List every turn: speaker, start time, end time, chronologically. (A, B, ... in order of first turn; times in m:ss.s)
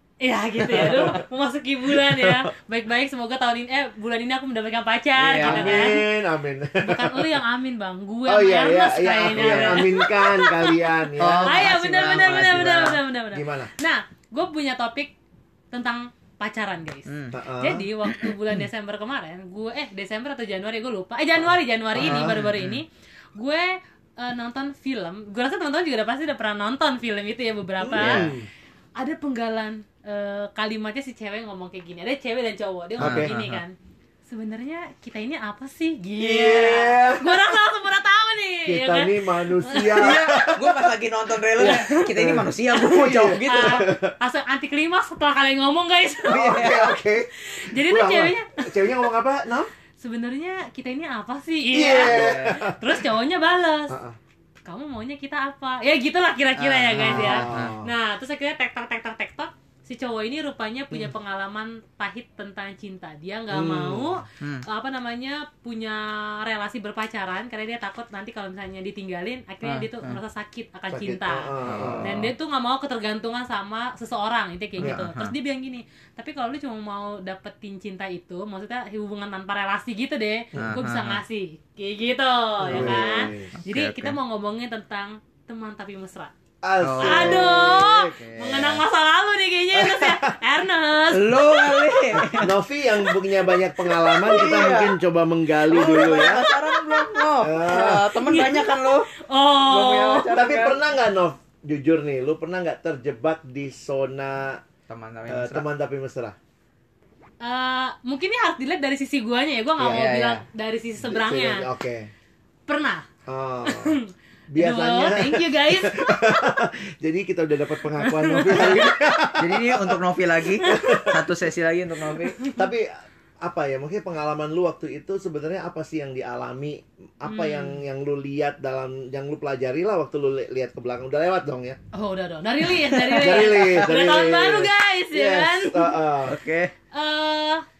0:00.2-0:06.0 A
0:00.6-0:01.2 B
0:01.9-0:02.4 B
0:05.2-0:05.9 C
0:05.4-0:07.4 B
0:06.8-0:15.1 A
0:08.3-0:11.7 B
0:09.3-0:09.9 C
0:11.2-0:13.0 C
0:13.3-0:13.7 B
0:15.7-0:28.3 A
0:17.1-0:17.4 C
0:17.3-0:17.9 B
0:18.0-0:18.4 C
0:22.0-0:22.5 B
0:22.0-0:22.8 C
0:27.8-0:28.5 B
0:28.0-0:28.3 C
0:29.0-0:33.8 A
0:33.0-0:33.3 B
0:33.0-0:33.6 C
0:34.3-0:40.2 A
0:36.2-0:37.6 B
0:38.7-0:41.0 B
0:40.0-0:43.9 C
0:41.6-0:44.1 B
0:41.6-0:42.1 A
0:43.4-0:49.0 A
0:46.3-0:49.7 B
0:46.3-0:46.9 C
0:50.0-0:54.0 A
0:51.7-0:53.1 B
0:52.0-0:52.7 C
0:53.9-0:54.2 B
0:54.6-1:26.3 A
0:56.6-0:57.8 C
0:57.0-0:57.9 B
1:03.5-1:04.2 B
1:04.4-1:04.7 C
1:09.6-1:10.2 C
1:10.9-1:12.2 B
1:11.7-1:12.3 C
1:14.8-1:15.4 C
1:14.8-1:15.0 B
1:20.5-1:20.8 B
1:20.6-1:21.2 C
1:22.6-1:23.6 B
1:22.7-1:24.2 C
1:26.6-1:28.2 B
1:26.8-1:28.8 C
1:27.0-1:32.5 A
1:29.8-1:30.4 B
1:31.1-1:32.6 C
1:32.2-1:36.4 B
1:33.0-1:34.7 A
1:34.2-1:35.0 C
1:35.7-1:39.1 C
1:35.8-1:40.5 A
1:37.4-1:38.2 B
1:39.7-1:40.9 C
1:40.2-1:44.6 B
1:44.9-1:45.6 C
1:45.3-1:46.4 B
1:47.4-1:51.7 A
1:49.8-1:50.0 B
1:49.8-1:50.4 C
1:51.0-1:52.1 B
1:52.7-1:53.1 A
1:53.3-1:54.0 B
1:53.6-1:56.6 A
1:54.5-2:00.0 B
1:58.0-1:59.0 A
1:58.5-2:02.4 C
2:00.5-2:01.2 A
2:00.6-2:01.3 B
2:02.1-2:02.6 A
2:02.6-2:02.9 B
2:03.4-2:11.8 B
2:07.3-2:07.8 A
2:11.9-2:16.2 A
2:12.9-2:14.1 C
2:13.2-2:16.4 B
2:16.3-2:16.7 C
2:16.9-2:17.6 A